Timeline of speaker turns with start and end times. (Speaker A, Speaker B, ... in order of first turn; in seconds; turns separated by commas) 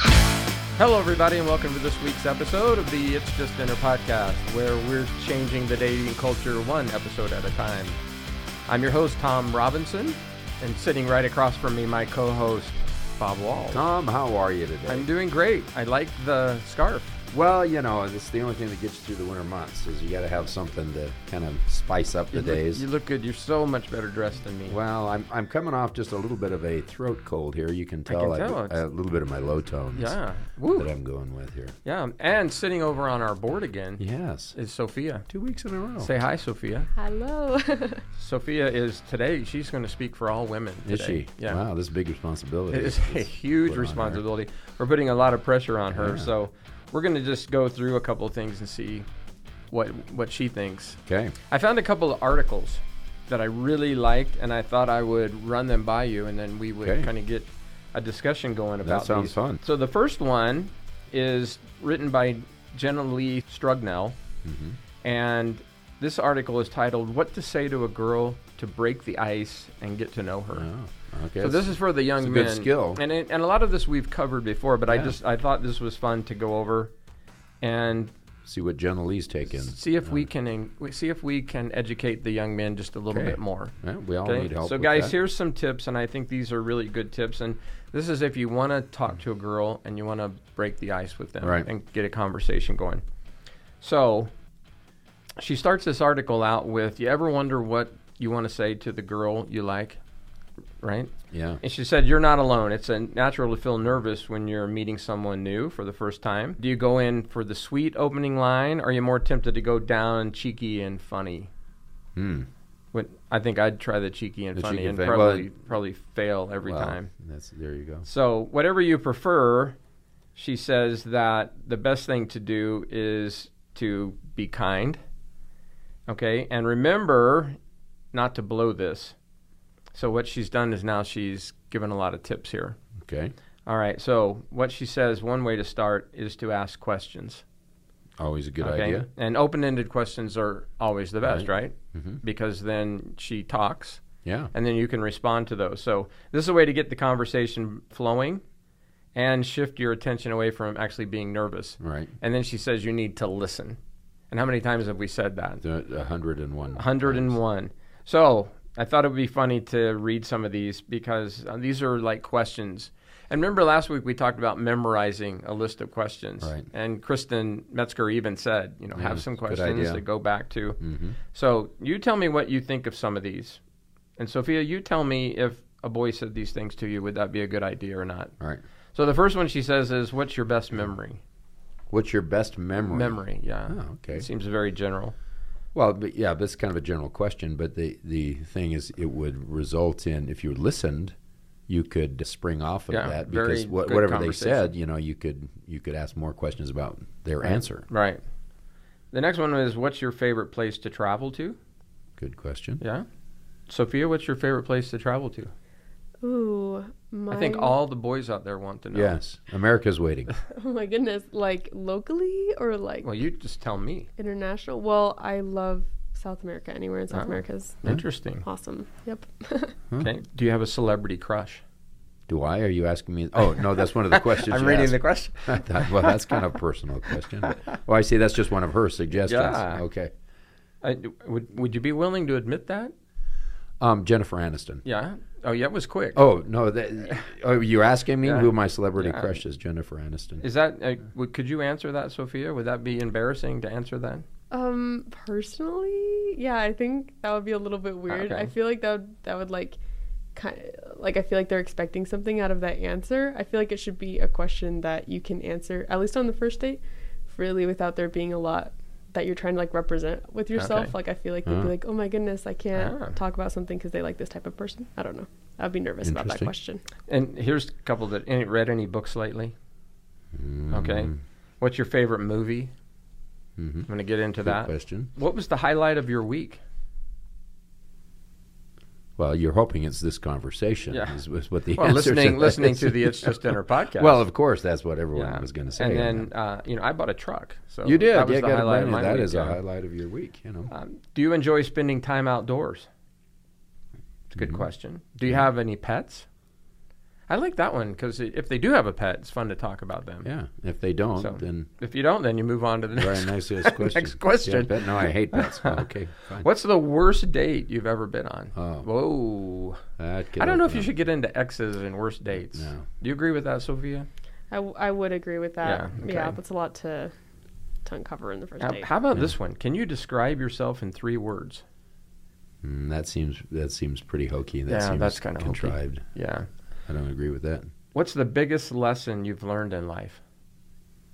Speaker A: 0.8-8.0, Speaker A: 8.7-13.8, Speaker B: 13.6-15.1, Speaker A: 14.9-17.2, Speaker B: 17.3-22.8, Speaker A: 22.3-24.8, Speaker B: 24.7-30.2, Speaker A: 28.1-28.8, Speaker A: 30.0-30.9, Speaker B: 30.7-31.8, Speaker A: 31.9-34.0, Speaker B: 34.0-34.6, Speaker A: 34.5-35.3, Speaker B: 35.3-36.1, Speaker A: 36.0-36.9, Speaker C: 37.0-38.0, Speaker A: 38.2-41.6, Speaker B: 40.9-44.2, Speaker A: 42.7-49.1, Speaker B: 45.9-46.3, Speaker A: 49.7-64.2, Speaker B: 51.1-51.4, Speaker B: 56.8-57.1, Speaker B: 58.8-59.6, Speaker B: 64.4-64.8, Speaker A: 65.0-70.7, Speaker B: 70.5-73.0, Speaker A: 71.4-76.9, Speaker B: 74.9-75.2, Speaker A: 77.6-78.1, Speaker B: 78.5-80.3, Speaker A: 79.5-83.7, Speaker B: 83.1-85.2, Speaker A: 84.2-93.0, Speaker B: 91.4-91.7, Speaker A: 93.8-94.3, Speaker A: 95.4-100.0, Speaker A: 100.8-111.5, Speaker B: 101.3-101.6, Speaker B: 112.2-112.5, Speaker A: 112.9-117.1, Speaker B: 114.5-115.5, Speaker B: 116.6-118.1, Speaker A: 118.0-119.8, Speaker A: 120.4-125.0, Speaker A: 126.1-127.6, Speaker A: 128.1-129.2, Speaker A: 129.9-132.8, Speaker B: 133.0-133.3, Speaker A: 133.7-137.4, Speaker B: 138.2-139.1, Speaker A: 138.6-148.4, Speaker B: 141.2-142.2, Speaker B: 144.2-144.5, Speaker A: 149.2-153.8, Speaker B: 151.8-152.1, Speaker A: 154.3-155.6, Speaker B: 155.6-157.4, Speaker A: 156.8-173.6, Speaker B: 166.4-166.7, Speaker B: 168.9-170.0, Speaker B: 170.8-171.2, Speaker A: 174.2-178.3, Speaker A: 178.9-181.2, Speaker B: 181.9-184.3, Speaker A: 182.9-185.1, Speaker B: 185.7-191.2, Speaker B: 191.7-197.9, Speaker A: 192.9-194.7, Speaker A: 197.4-198.2, Speaker A: 199.1-201.6, Speaker B: 202.2-202.8, Speaker A: 202.8-203.1, Speaker A: 203.7-205.5, Speaker C: 206.2-207.8, Speaker A: 207.3-209.2, Speaker B: 208.9-210.3, Speaker C: 210.5-213.1, Speaker A: 213.0-214.1, Speaker C: 214.2-217.8, Speaker A: 217.1-218.4, Speaker C: 218.4-219.8, Speaker A: 220.0-221.6, Speaker B: 222.3-230.1, Speaker A: 223.6-226.4, Speaker A: 227.4-227.8, Speaker A: 229.2-229.8, Speaker A: 230.8-232.9, Speaker B: 233.8-234.8, Speaker A: 234.8-236.2, Speaker B: 236.2-240.4, Speaker A: 238.2-239.3, Speaker A: 240.4-244.2, Speaker C: 244.5-249.8, Speaker A: 248.1-248.5, Speaker C: 250.3-266.8, Speaker A: 260.6-260.9, Speaker B: 261.5-261.7, Speaker A: 262.8-263.2, Speaker B: 266.0-266.5, Speaker A: 267.1-269.5, Speaker B: 270.3-271.2, Speaker A: 270.7-272.7, Speaker B: 273.6-273.9, Speaker A: 273.9-276.6, Speaker B: 274.4-275.1, Speaker B: 279.2-286.3, Speaker A: 280.9-281.2, Speaker A: 281.8-284.2, Speaker A: 285.1-289.6, Speaker B: 287.9-290.7, Speaker A: 290.7-292.9, Speaker A: 294.3-296.3, Speaker A: 297.3-300.3, Speaker B: 300.2-301.7, Speaker A: 301.2-309.8, Speaker B: 303.0-306.5, Speaker B: 308.6-308.9, Speaker B: 310.0-310.9, Speaker A: 310.4-314.1, Speaker B: 312.5-312.9, Speaker C: 314.5-317.1, Speaker A: 315.6-316.4, Speaker C: 317.9-318.9, Speaker A: 318.6-321.6, Speaker B: 322.6-326.0, Speaker A: 324.7-326.5, Speaker B: 326.9-327.7, Speaker A: 327.9-330.2